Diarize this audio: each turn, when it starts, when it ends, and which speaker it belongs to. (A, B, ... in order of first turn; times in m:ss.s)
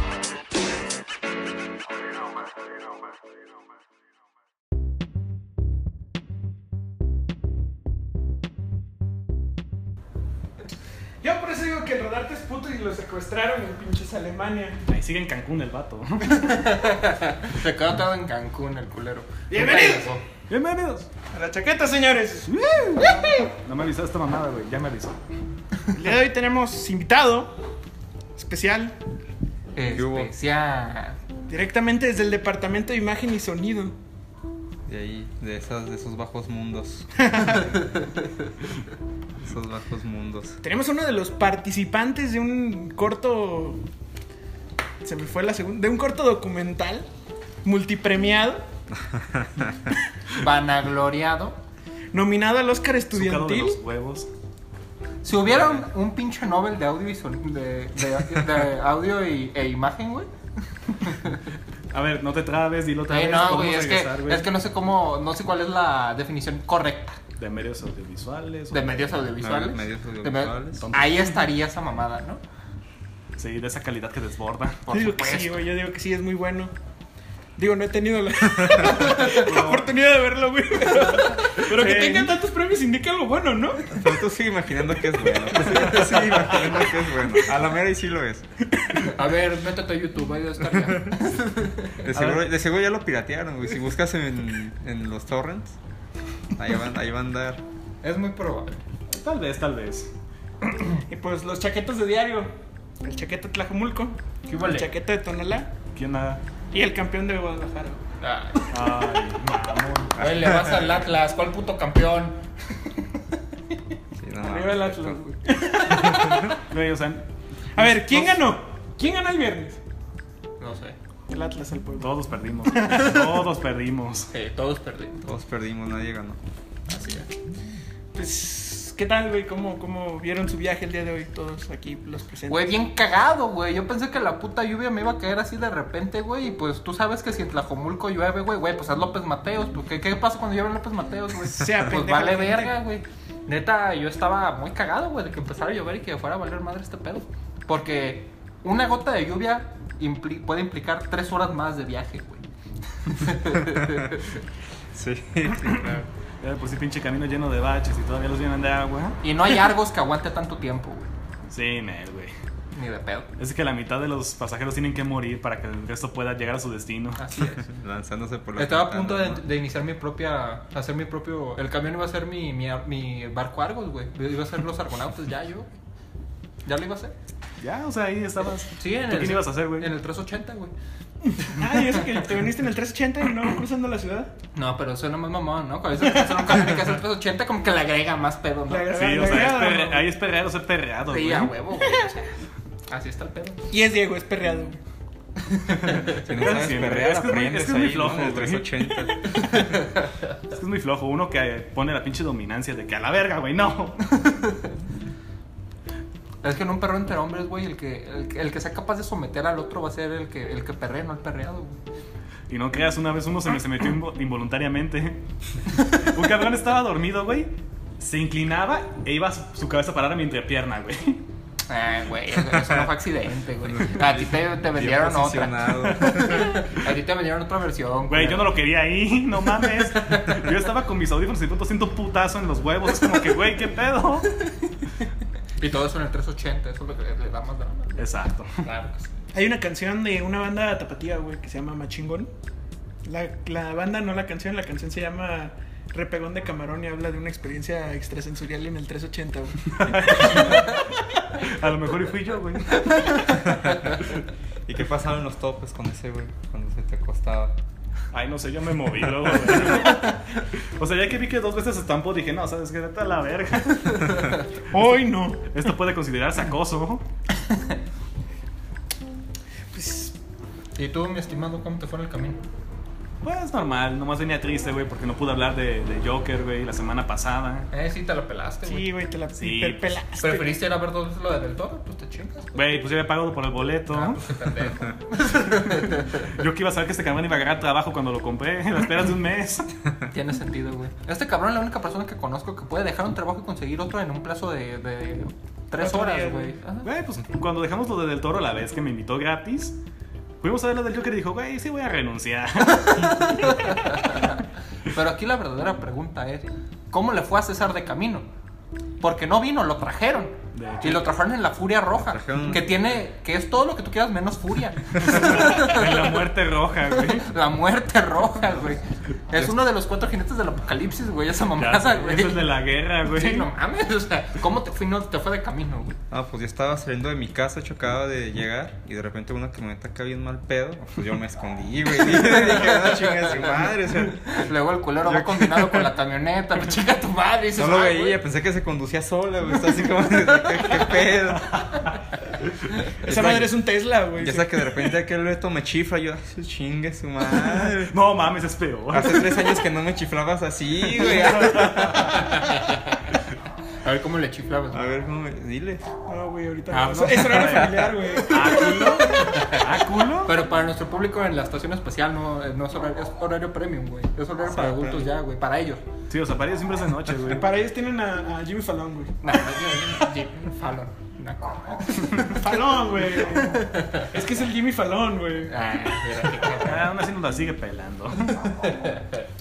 0:11.2-0:14.8 A
0:14.9-0:16.5 B
0:16.3-0:20.2 C
0:19.5-0:20.2 A
0:20.5-0:21.1 B
0:21.3-0:22.5 A
0:22.5-0:25.2 B
0:25.9-0:27.6 A
0:28.4-0:29.0 A
0:29.8-0:31.2 C
0:29.9-0:30.3 D
0:31.5-0:34.0 A
0:34.9-0:37.8 D
0:37.2-0:37.6 A
0:39.4-0:40.6 D
0:40.6-0:43.8 A
0:45.0-0:47.1 A
0:47.6-0:48.6 A
0:49.0-0:49.9 D
0:50.4-0:51.6 C
0:52.1-0:53.8 A
0:53.1-0:54.3 B
0:55.2-1:00.3 C
0:55.5-0:55.9 B
1:00.9-1:01.4 C
1:01.9-1:04.5 B
1:03.1-1:07.2 C
1:07.4-1:09.0 B
1:08.7-1:12.4 C
1:09.4-1:10.9 D
1:10.8-1:11.4 B
1:13.4-1:14.8 B
1:14.9-1:15.6 C
1:14.9-1:16.7 A
1:17.6-1:24.0 A
1:18.6-1:19.0 D
1:19.0-1:19.4 C
1:19.3-1:19.9 B
1:21.6-1:22.3 B
1:23.9-1:28.4 D
1:26.0-1:26.3 A
1:29.0-1:32.0 C
1:30.7-1:31.2 D
1:32.0-1:35.8 D
1:32.1-1:32.4 B
1:36.6-1:37.6 D
1:38.0-1:38.8 C
1:39.1-1:40.1 B
1:41.0-1:42.5 A
1:43.0-1:45.7 A
1:44.5-1:44.9 C
1:46.0-1:46.4 B
1:46.7-1:48.0 A
1:48.2-1:48.8 C
1:48.7-1:50.2 B
1:50.2-1:52.4 C
1:50.2-1:50.8 D
1:54.2-1:55.2 D
1:54.4-1:56.5 A
1:55.9-1:56.4 D
1:56.0-1:57.2 B
1:57.8-1:59.8 A
2:00.6-2:01.0 C
2:01.3-2:02.1 A
2:02.0-2:04.3 B
2:02.7-2:03.2 A
2:04.3-2:05.3 C
2:05.2-2:06.4 D
2:06.9-2:07.3 C
2:08.2-2:12.7 A
2:12.5-2:32.5 C
2:21.4-2:22.8 A
2:33.0-2:34.3 C
2:33.8-2:34.0 D
2:34.9-2:36.1 D
2:36.4-2:39.2 B
2:39.2-2:41.1 C
2:41.5-2:42.3 B
2:42.8-2:43.3 C
2:43.4-2:47.2 B
2:47.2-2:47.7 C
2:47.6-2:49.4 D
2:48.6-2:55.7 C
2:56.6-2:57.1 C
2:57.6-2:59.9 B
2:58.8-3:00.7 C
3:01.3-3:04.3 A
3:04.6-3:09.5 C
3:08.7-3:10.1 A
3:08.9-3:11.5 B
3:11.1-3:12.3 C
3:12.9-3:13.6 C
3:13.7-3:14.8 A
3:15.8-3:16.2 C
3:15.9-3:19.1 B
3:16.2-3:19.4 D
3:20.5-3:24.2 B
3:26.4-3:31.8 C
3:32.5-3:35.2 B
3:35.8-3:41.2 B
3:41.7-3:48.5 C
3:43.6-3:46.5 D
3:45.9-3:46.2 B
3:48.1-3:54.4 B
3:50.0-3:50.3 C
3:55.6-3:58.1 C
3:58.0-3:58.6 B
3:58.6-3:59.1 C
3:59.3-4:02.3 A
4:03.0-4:10.8 A
4:09.8-4:10.7 B
4:11.4-4:13.3 B
4:13.5-4:13.8 D
4:14.7-4:17.6 D
4:18.1-4:24.4 B
4:24.7-4:25.4 A
4:25.5-4:27.1 B
4:29.7-4:30.2 A
4:30.8-4:32.4 C
4:33.2-4:37.7 B
4:37.7-4:39.0 C
4:38.6-4:40.5 A
4:39.4-4:40.0 B
4:40.2-4:42.6 C
4:42.6-4:44.3 B
4:43.9-4:46.3 C
4:45.7-4:49.7 B
4:50.1-4:56.9 C
4:55.8-4:56.6 A
4:56.8-4:59.8 B
5:00.4-5:04.2 B
5:03.0-5:08.3 C
5:09.0-5:16.1 C
5:10.5-5:11.1 B
5:12.0-5:13.0 D
5:15.1-5:17.3 B
5:17.1-5:22.5 C
5:21.6-5:23.5 B
5:23.1-5:26.0 C
5:26.1-5:34.5 D
5:32.0-5:38.2 C
5:35.0-5:35.9 D
5:37.6-5:41.8 D
5:43.0-5:43.6 D
5:43.0-5:44.7 A
5:44.2-5:48.0 D
5:47.4-5:49.4 B
5:48.9-5:52.3 D
5:51.6-5:51.9 B
5:52.3-5:52.8 C
5:53.8-5:54.9 C
5:54.7-5:55.8 D
5:56.1-5:58.5 A
5:56.7-5:59.7 C
5:57.1-6:00.4 B
5:57.4-5:58.0 D
6:00.2-6:05.8 C
6:04.5-6:05.1 D
6:06.1-6:07.5 B
6:07.3-6:09.2 A
6:09.2-6:14.1 C
6:12.2-6:15.6 A
6:15.5-6:16.8 C
6:16.6-6:18.4 B
6:18.6-6:19.0 C